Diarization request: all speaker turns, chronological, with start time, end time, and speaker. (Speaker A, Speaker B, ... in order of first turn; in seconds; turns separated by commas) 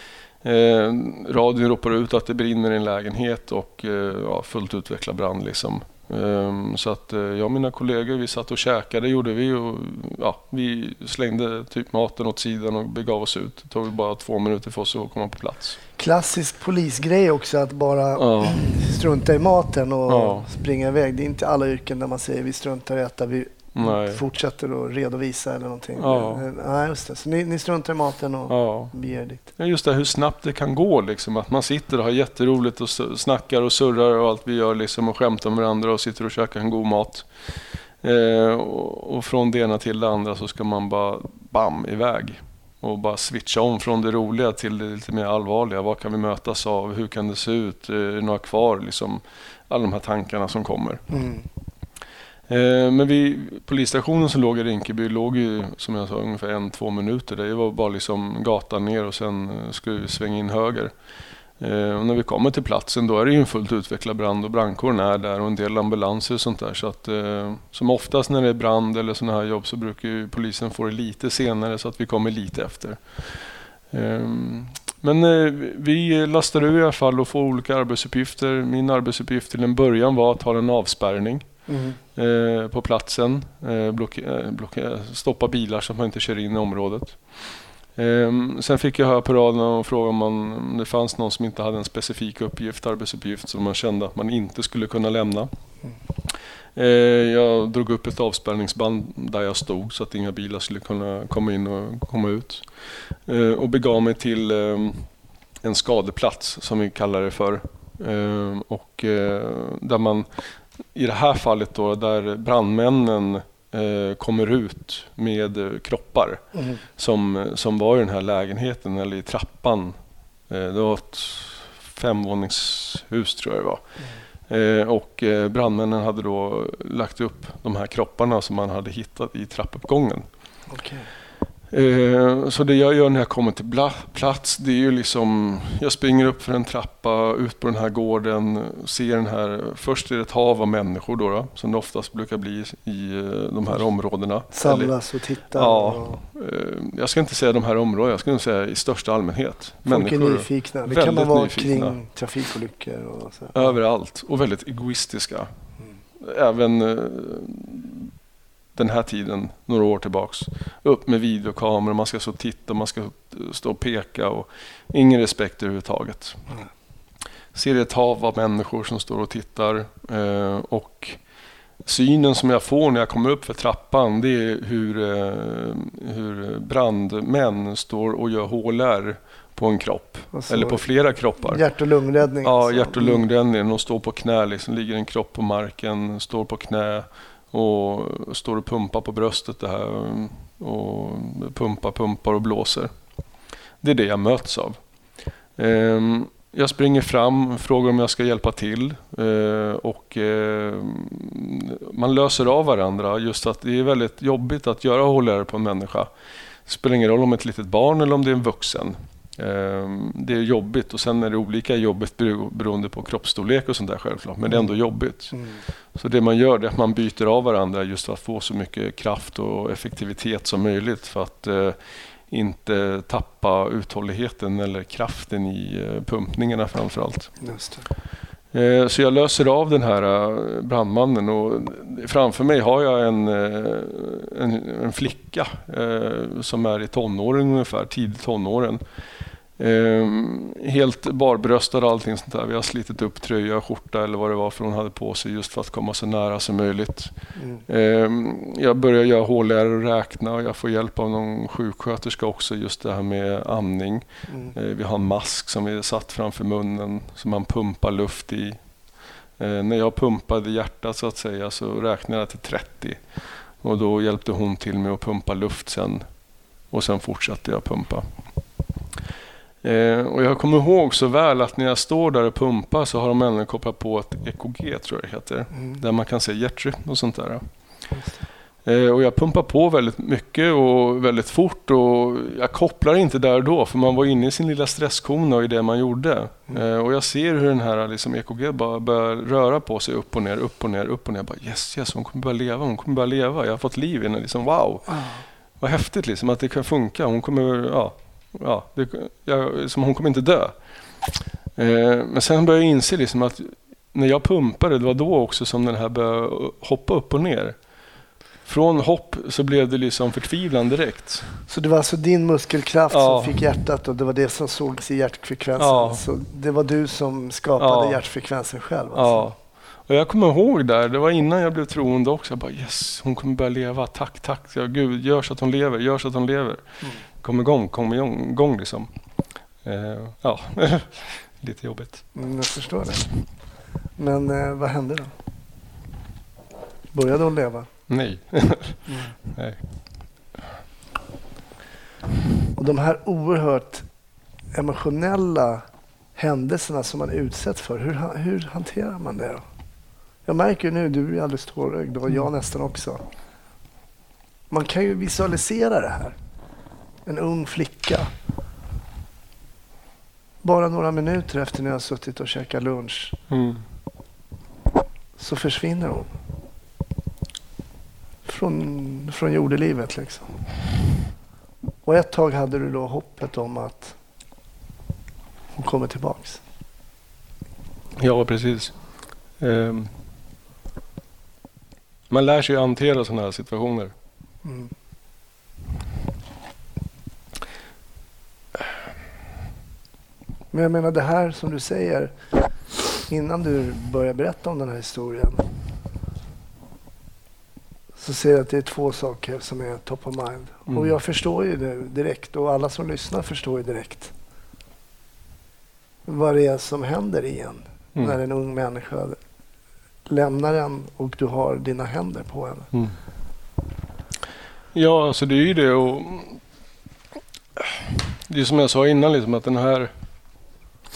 Speaker A: 0.4-15.8, Speaker B: 16.0-29.5, Speaker A: 18.1-18.8, Speaker A: 20.1-20.5, Speaker A: 23.7-24.2, Speaker A: 25.9-26.5, Speaker A: 28.5-28.9, Speaker A: 29.6-37.3, Speaker A: 38.0-51.0, Speaker B: 51.1-51.5, Speaker A: 52.5-60.9, Speaker A: 61.6-73.3, Speaker A: 73.9-81.5, Speaker B: 81.7-82.0, Speaker A: 82.1-87.2, Speaker A: 88.0-95.5, Speaker A: 96.8-102.7, Speaker A: 103.2-105.1, Speaker A: 105.6-110.3, Speaker A: 110.9-116.4, Speaker B: 116.5-116.8, Speaker A: 117.0-119.9, Speaker A: 120.5-123.8, Speaker A: 124.5-130.2, Speaker B: 130.7-131.1, Speaker A: 131.7-144.9, Speaker B: 144.5-146.2, Speaker A: 145.5-152.0, Speaker B: 149.8-153.7, Speaker A: 153.5-155.5, Speaker A: 156.2-158.1, Speaker A: 158.8-166.4, Speaker A: 167.5-171.2, Speaker A: 171.8-181.6, Speaker B: 180.3-180.8, Speaker B: 181.4-183.2, Speaker A: 182.4-192.9, Speaker A: 193.8-194.8, Speaker A: 195.6-206.1, Speaker A: 206.7-215.4, Speaker A: 215.9-227.3, Speaker B: 227.4-227.9, Speaker A: 228.5-238.8, Speaker A: 239.6-247.1, Speaker B: 247.3-247.6, Speaker A: 247.7-258.6, Speaker B: 254.3-254.5, Speaker A: 259.4-263.0, Speaker A: 263.6-266.0, Speaker A: 266.7-268.1, Speaker A: 269.6-277.4, Speaker B: 277.9-278.2, Speaker A: 278.6-295.0, Speaker B: 294.9-295.2, Speaker A: 295.6-300.5, Speaker A: 301.6-307.6, Speaker A: 308.4-311.3, Speaker B: 311.5-319.3, Speaker A: 312.9-313.4, Speaker A: 315.6-316.0, Speaker A: 317.6-318.0, Speaker A: 318.9-319.4, Speaker A: 319.9-326.6, Speaker A: 327.2-328.9, Speaker A: 329.6-332.0, Speaker B: 332.1-333.1, Speaker B: 334.0-335.1, Speaker B: 336.9-337.7, Speaker A: 337.9-339.6, Speaker B: 338.9-339.1, Speaker B: 342.5-343.9, Speaker B: 344.5-345.6, Speaker B: 346.1-349.4, Speaker B: 350.2-353.0, Speaker B: 354.5-356.1, Speaker B: 357.1-358.1, Speaker B: 360.4-363.2, Speaker A: 363.3-363.6, Speaker B: 365.2-366.1, Speaker B: 368.2-370.3, Speaker B: 371.8-374.0, Speaker B: 375.6-376.4, Speaker A: 378.0-378.7, Speaker A: 379.4-379.9, Speaker A: 382.1-383.9, Speaker B: 384.4-384.7, Speaker B: 390.5-392.1, Speaker B: 393.1-395.5, Speaker B: 397.9-404.1, Speaker B: 406.1-409.2, Speaker B: 410.1-412.7, Speaker A: 414.7-416.4, Speaker A: 417.6-419.9